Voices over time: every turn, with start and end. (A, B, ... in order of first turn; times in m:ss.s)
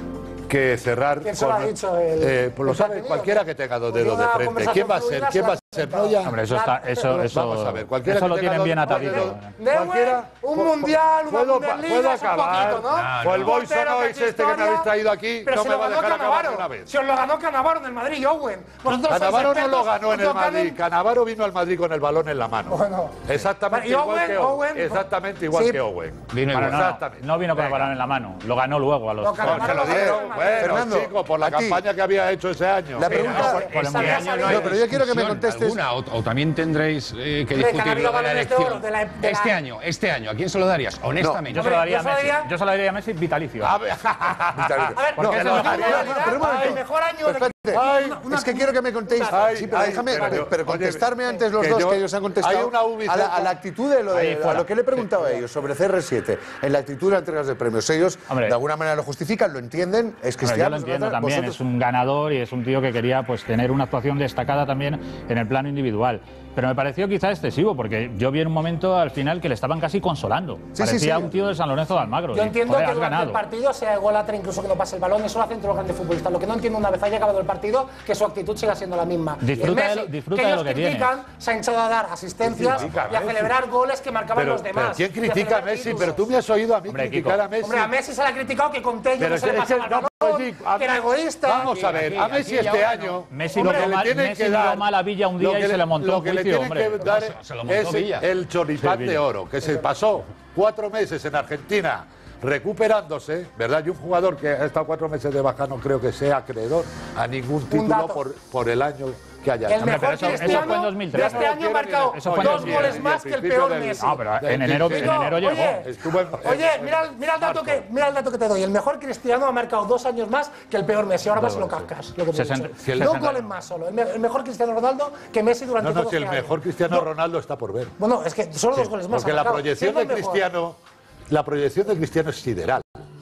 0:00.5-0:06.4 A
0:01.2-0:07.2 B
0:06.2-0:09.5 C
0:07.1-0:16.9 A
0:08.9-0:14.9 B
0:12.9-0:13.5 D
0:15.4-0:20.8 B
0:19.0-0:27.9 A
0:22.7-0:25.8 B
0:26.3-0:26.8 D
0:26.5-0:30.0 C
0:29.2-0:30.9 B
0:29.4-0:33.6 A
0:29.8-0:31.8 E
0:32.9-0:33.6 E
0:33.0-0:34.7 B
0:33.3-0:34.3 C
0:33.7-0:41.8 D
0:34.4-0:35.8 E
0:37.5-0:39.6 B
0:41.2-0:41.4 E
0:41.5-0:42.5 B
0:41.5-0:43.7 C
0:43.6-0:46.8 A
0:44.6-1:01.6 E
0:44.9-0:49.5 B
0:45.2-0:45.8 C
0:47.7-0:48.2 A
0:49.3-0:53.6 A
0:54.1-0:54.7 C
0:58.3-0:58.5 C
1:00.4-1:13.4 C
1:10.7-1:11.3 E
1:12.3-1:26.3 B
1:19.4-1:21.1 C
1:22.4-1:23.5 A
1:24.4-1:27.9 A
1:26.9-1:27.4 C
1:27.6-1:31.9 B
1:29.2-1:34.8 A
1:31.8-1:33.2 D
1:33.3-1:37.0 C
1:33.5-1:33.9 B
1:35.4-1:57.7 A
1:37.0-1:38.3 D
1:38.8-1:39.2 C
1:47.7-1:48.2 B
1:49.7-1:54.2 B
1:49.8-1:51.6 C
1:52.1-1:53.0 C
1:54.0-1:55.8 C
1:54.8-2:07.1 B
2:01.4-2:03.5 C
2:02.9-2:03.1 A
2:05.8-2:07.9 A
2:08.0-2:10.4 B
2:09.1-2:10.8 A
2:11.3-2:12.8 A